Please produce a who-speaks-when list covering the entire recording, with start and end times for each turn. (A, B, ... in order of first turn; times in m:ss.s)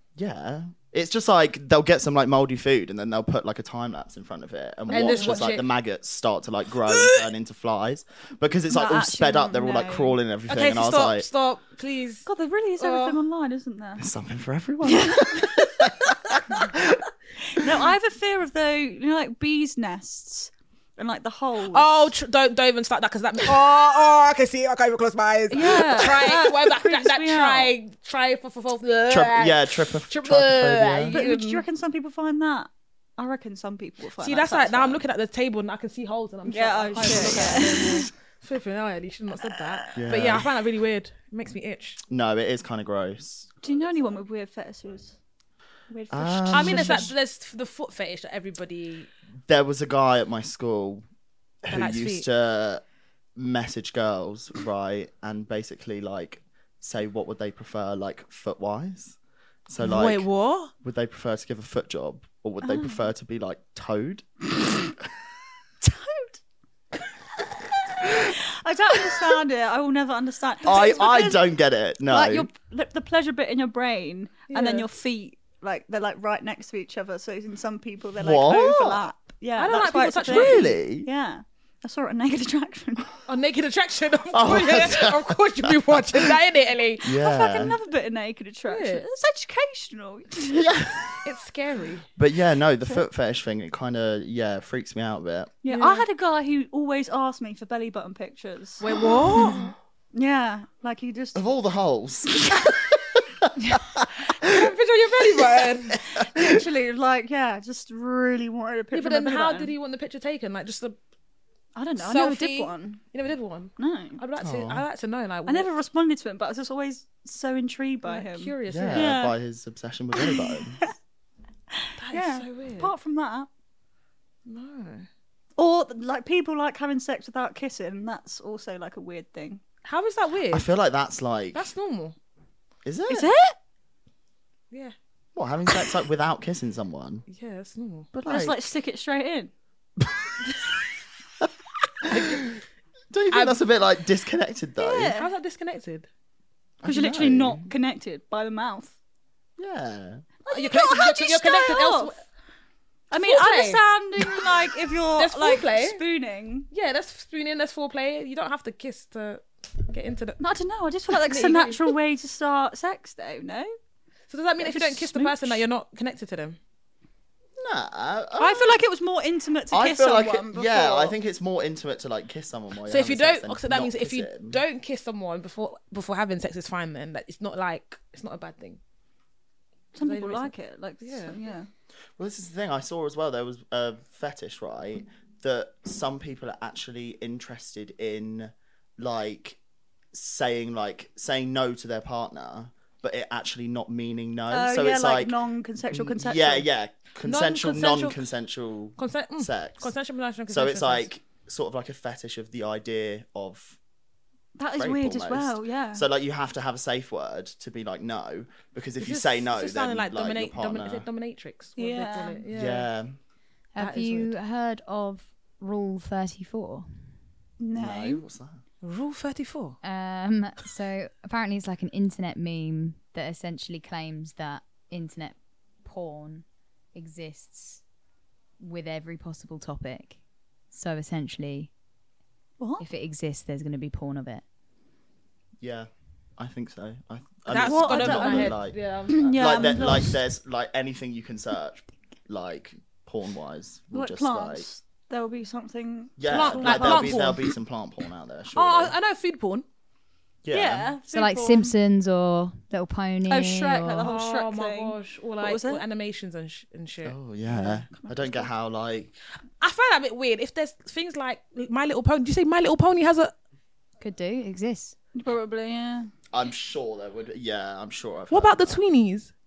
0:00.2-0:11.3 A
0:04.9-0:05.5 B
0:04.9-0:05.7 C
0:08.7-0:10.2 B
0:10.5-0:12.3 C
0:12.3-0:14.1 B
0:12.8-0:13.2 C
0:14.0-0:17.0 A
0:14.8-0:16.6 B
0:17.5-0:22.1 B
0:21.7-0:31.6 C
0:25.5-0:27.7 B
0:29.1-0:31.2 A
0:31.1-0:35.0 B
0:34.2-0:42.0 C
0:36.5-0:38.1 B
0:39.5-0:40.0 B
0:40.0-0:40.5 A
0:42.1-0:43.5 A
0:43.6-0:45.2 B
0:45.9-0:47.1 B
0:46.1-0:47.1 A
0:46.5-0:49.1 C
0:49.5-0:51.0 A
0:51.6-0:52.8 A
0:51.7-0:52.3 C
0:53.4-0:59.2 A
0:59.7-1:00.3 A
0:59.8-1:00.7 C
1:00.8-1:04.4 A
1:02.6-1:03.0 B
1:05.8-1:06.4 B
1:08.0-1:11.5 B
1:10.6-1:12.5 A
1:12.1-1:23.1 B
1:14.5-1:14.9 C
1:18.2-1:19.0 A
1:19.6-1:20.8 C
1:20.2-1:21.1 A
1:23.3-1:27.1 C
1:24.3-1:26.4 A
1:27.0-1:27.8 A
1:27.1-1:30.7 B
1:28.7-1:29.0 C
1:30.5-1:31.2 A
1:31.2-1:32.1 C
1:32.2-1:35.5 A
1:35.6-1:38.8 B
1:35.7-1:36.0 C
1:38.8-1:39.7 C
1:39.3-1:39.6 A
1:40.1-1:41.4 B
1:41.4-1:44.7 A
1:44.4-1:46.0 C
1:45.4-1:46.6 A
1:46.2-1:49.7 B
1:48.9-1:51.0 C
1:51.8-1:53.0 B
1:52.0-1:55.7 C
1:53.8-1:54.2 B
1:54.4-1:54.8 A
1:55.5-1:59.4 B
1:58.0-1:59.2 C
1:58.7-2:00.8 A
2:00.2-2:00.9 B
2:01.7-2:03.5 B
2:02.0-2:02.9 C
2:04.5-2:05.1 C
2:05.6-2:09.6 B
2:09.8-2:10.7 C
2:10.5-2:11.7 A
2:11.5-2:12.2 C
2:12.8-2:13.3 A
2:13.1-2:13.6 B
2:15.4-2:17.2 A
2:17.3-2:18.1 C
2:18.1-2:18.7 A
2:18.3-2:19.5 B
2:20.0-2:20.3 A
2:22.0-2:22.6 A
2:22.1-2:22.4 C
2:23.1-2:25.1 A
2:23.3-2:23.6 C
2:24.8-2:25.3 B
2:25.2-2:26.1 C
2:26.8-2:27.7 A
2:26.8-2:28.9 B
2:29.6-2:30.2 A
2:30.4-2:32.1 B
2:30.5-2:32.2 C
2:33.1-2:36.7 B
2:33.2-2:33.8 C
2:35.2-2:36.0 C
2:36.7-2:40.4 C
2:40.4-2:43.7 B
2:41.2-2:42.0 C
2:44.3-2:46.6 C
2:44.6-2:45.6 B
2:47.6-2:48.8 A
2:48.4-2:51.2 B
2:49.7-2:54.6 A
2:52.9-2:58.8 C
2:59.9-3:01.7 B
3:00.0-3:01.4 C
3:02.2-3:09.6 A
3:10.1-3:15.4 A
3:14.5-3:16.7 B
3:15.9-3:19.9 A
3:17.2-3:18.2 C
3:19.0-3:21.1 C
3:20.5-3:23.8 A
3:24.6-3:26.1 B
3:24.7-3:31.1 A
3:29.0-3:32.9 C
3:31.8-3:32.4 B
3:32.5-3:33.2 A
3:33.7-3:37.1 D
3:33.8-3:34.4 C
3:37.6-3:38.2 B
3:37.8-3:38.6 A
3:38.8-3:39.8 C
3:39.8-3:47.8 D
3:48.6-3:50.2 D
3:50.7-3:51.7 D
3:52.6-3:52.9 B
3:52.8-3:54.4 D
3:55.6-4:04.7 A
3:57.5-3:59.9 C
3:57.6-3:58.6 B
3:59.1-4:00.1 B
4:03.9-4:07.5 B
4:06.2-4:09.0 A
4:06.3-4:07.4 C
4:08.5-4:09.6 C
4:10.4-4:10.9 A
4:10.5-4:11.7 B
4:11.1-4:14.1 D
4:13.3-4:15.8 B
4:14.0-4:17.2 C
4:17.0-4:19.2 A
4:17.5-4:18.5 B
4:19.6-4:23.3 C
4:24.0-4:25.0 D
4:25.2-4:26.1 B
4:26.3-4:28.8 A
4:28.3-4:29.3 C